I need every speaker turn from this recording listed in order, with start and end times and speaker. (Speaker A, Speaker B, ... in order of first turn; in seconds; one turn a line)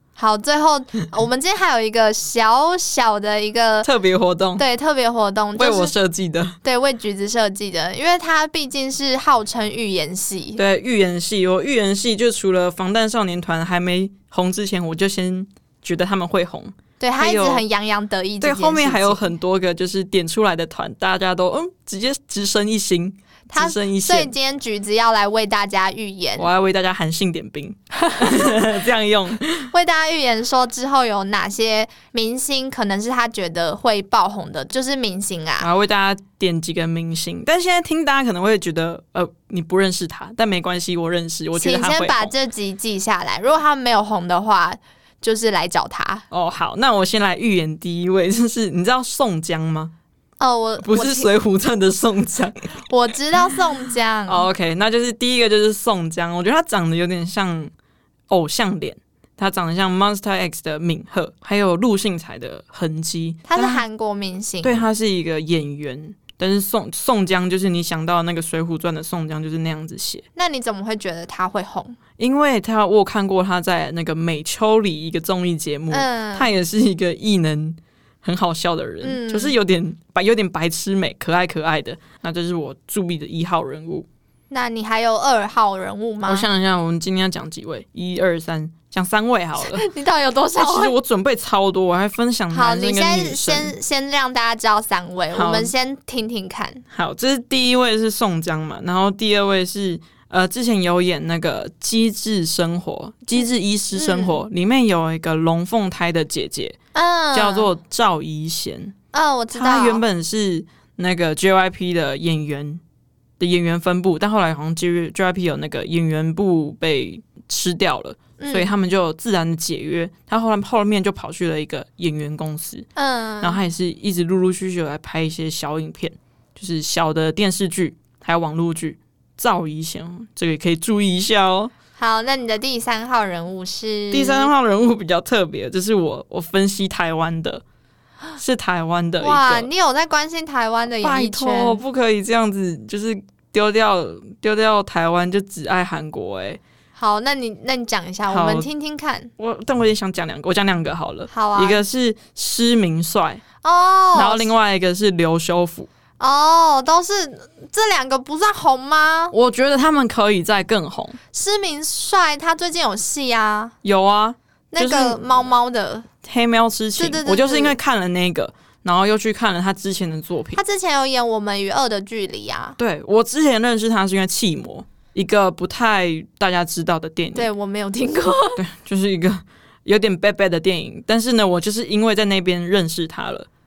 Speaker A: 0.2-3.9
Speaker B: 3.8-4.6
Speaker A: 4.6-5.9
Speaker B: 5.6-6.6
Speaker A: 6.6-10.6
Speaker B: 10.6-17.6
Speaker A: 17.0-19.3
Speaker B: 18.4-24.3
Speaker A: 23.5-26.5
Speaker B: 26.4-29.7
Speaker A: 28.0-28.5
Speaker A: 29.7-35.7
Speaker B: 35.6-42.3
Speaker A: 41.5-46.3
Speaker B: 46.3-49.9
Speaker A: 50.4-51.3
Speaker B: 50.8-52.6
Speaker A: 52.9-54.5
Speaker B: 54.3-57.7
Speaker B: 58.3-63.8
Speaker A: 63.5-64.9
Speaker B: 64.6-70.2
Speaker A: 70.3-72.0
Speaker B: 72.2-84.1
Speaker A: 75.9-76.5
Speaker A: 79.0-79.6
Speaker A: 84.5-86.5
Speaker B: 86.3-89.8
Speaker A: 89.6-90.9
Speaker B: 90.6-93.7
Speaker A: 92.5-96.8
Speaker B: 95.3-95.7
Speaker B: 96.9-106.8
Speaker A: 103.9-104.4
Speaker A: 106.9-107.7
Speaker B: 107.3-109.0
Speaker A: 109.1-110.0
Speaker B: 109.5-112.8
Speaker B: 113.4-122.9
Speaker A: 118.4-118.7
Speaker A: 123.0-123.6
Speaker B: 123.4-131.7
Speaker A: 132.0-134.5
Speaker B: 134.1-137.6
Speaker B: 138.4-139.7
Speaker A: 139.2-141.8
Speaker B: 141.0-146.6
Speaker A: 147.0-149.3
Speaker B: 148.3-148.7
Speaker B: 149.4-153.4
Speaker A: 151.3-151.8
Speaker A: 153.6-154.5
Speaker B: 154.1-155.9
Speaker A: 156.2-159.3
Speaker B: 159.3-161.2
Speaker A: 161.3-163.7
Speaker B: 163.8-165.5
Speaker A: 164.7-166.1
Speaker B: 166.2-170.6
Speaker A: 167.0-167.8
Speaker A: 170.5-172.8
Speaker B: 172.8-177.5
Speaker A: 177.3-178.6
Speaker B: 178.6-183.5